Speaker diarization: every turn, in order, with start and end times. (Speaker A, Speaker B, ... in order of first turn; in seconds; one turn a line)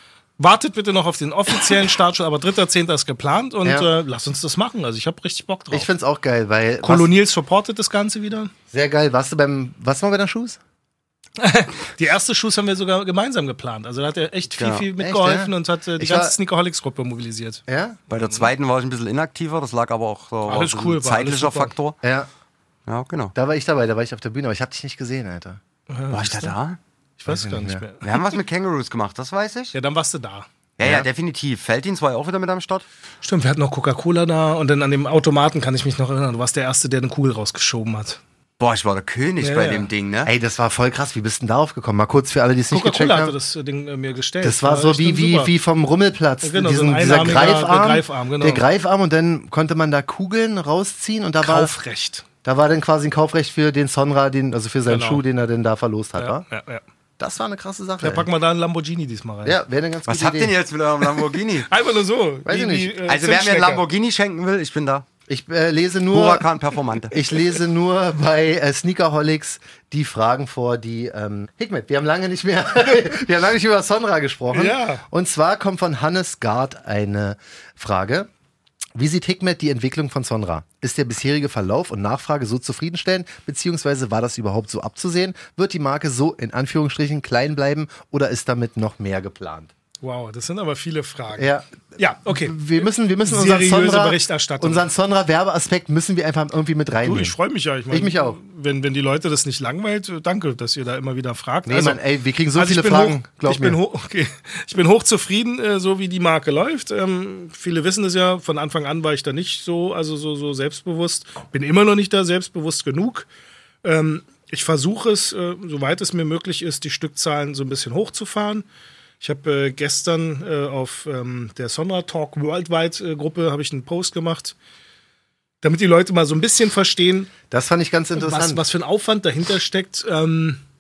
Speaker A: 0.4-5.9
Speaker B: 5.7-7.1
Speaker A: 6.8-8.5
Speaker B: 8.7-10.6
Speaker A: 11.4-17.6
Speaker C: 14.6-14.9
Speaker B: 15.0-16.4
Speaker B: 17.7-18.0
Speaker C: 18.1-22.0
Speaker A: 18.2-18.4
Speaker A: 20.5-21.7
Speaker B: 22.0-22.3
Speaker C: 22.9-23.3
Speaker B: 23.4-25.6
Speaker A: 25.9-26.6
Speaker C: 26.1-26.8
Speaker A: 27.2-28.2
Speaker B: 27.3-27.8
Speaker C: 28.0-29.8
Speaker A: 29.7-30.5
Speaker C: 30.8-32.9
Speaker B: 30.8-31.1
Speaker A: 33.2-38.2
Speaker C: 38.6-40.3
Speaker A: 39.4-39.9
Speaker B: 40.2-43.4
Speaker A: 42.7-45.5
Speaker B: 44.4-51.7
Speaker A: 46.4-48.6
Speaker A: 51.4-52.3
Speaker B: 52.4-56.4
Speaker A: 54.9-55.2
Speaker A: 56.2-56.8
Speaker B: 57.2-58.3
Speaker A: 58.0-59.6
Speaker B: 59.5-60.5
Speaker C: 60.1-61.7
Speaker A: 61.7-63.8
Speaker B: 62.5-63.0
Speaker C: 63.1-65.1
Speaker B: 65.3-66.5
Speaker C: 66.1-67.2
Speaker B: 67.1-78.3
Speaker A: 74.5-75.0
Speaker B: 79.0-89.7
Speaker A: 90.0-94.9
Speaker B: 91.4-91.7
Speaker B: 92.3-97.4
Speaker A: 97.0-102.0
Speaker B: 97.9-98.4
Speaker B: 101.7-103.8
Speaker A: 102.5-113.3
Speaker A: 113.8-118.7
Speaker A: 119.2-124.5
Speaker A: 125.6-127.3
Speaker B: 127.5-128.6
Speaker A: 128.2-130.6